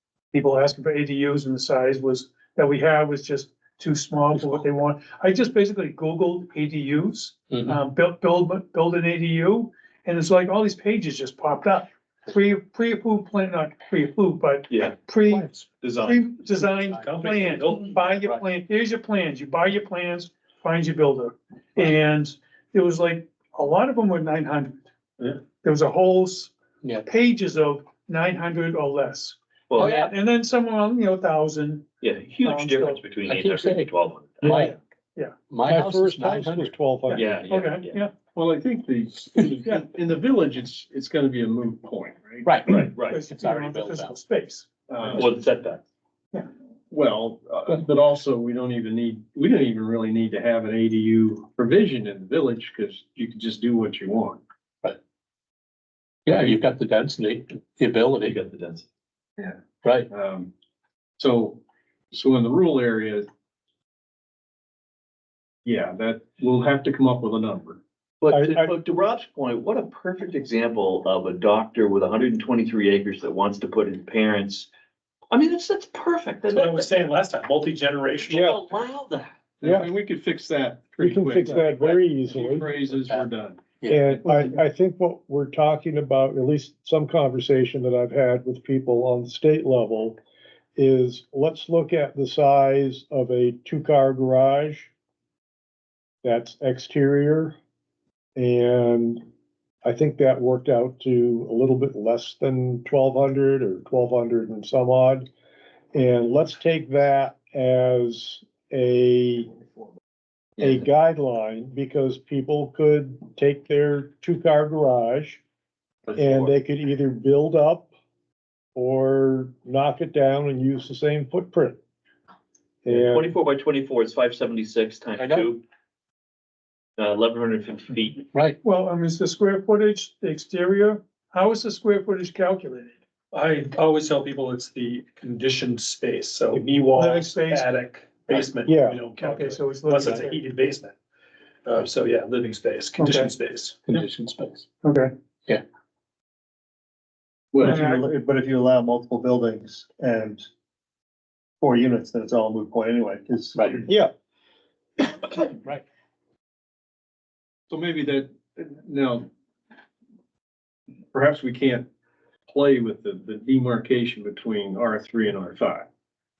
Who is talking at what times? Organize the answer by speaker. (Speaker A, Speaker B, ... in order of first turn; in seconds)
Speaker A: 0.3-15.5, 16.0-24.8, 25.4-26.5, 27.0-31.9, 32.4-33.0, 34.5-35.4, 37.1-38.1, 43.1-44.7, 128.6-132.9, 136.9-137.7, 139.1-140.4, 143.0-143.3, 144.8-145.1, 147.6-148.1
Speaker B: 7.5-7.8, 16.4-18.4, 29.8-30.1, 33.2-34.8, 35.5-36.7, 42.4-44.2, 56.2-58.4, 59.8-60.1, 83.8-84.2, 125.2-125.5, 143.9-144.7, 153.5-153.8
Speaker C: 14.7-15.0, 15.7-16.3, 29.7-30.0, 32.0-34.6, 37.1-38.0, 42.7-43.2, 45.1-45.8, 58.2-58.8, 68.2-74.7, 75.3-77.0, 78.3-79.3, 116.1-116.5, 122.9-125.6, 127.0-128.2
Speaker D: 15.3-15.6, 17.0-17.9, 76.5-78.5, 133.3-140.9, 141.7-143.8
Speaker E: 35.6-37.3, 68.3-68.7, 78.3-78.6, 79.6-79.9, 81.0-82.7, 83.9-90.2, 90.8-94.9, 96.2-97.6, 98.3-99.2, 99.8-105.3, 105.9-109.5, 110.6-115.4, 116.2-117.9, 118.7-121.8, 122.8-123.3, 138.6-139.0
Speaker F: 38.3-42.5, 44.9-45.3, 46.9-54.4, 59.4-60.5, 61.2-61.6, 62.1-63.3, 65.6-67.8, 79.6-83.6, 147.5-147.8, 157.7-159.3, 161.1-161.9, 162.5-165.9
Speaker G: 147.7-150.4, 151.6-153.6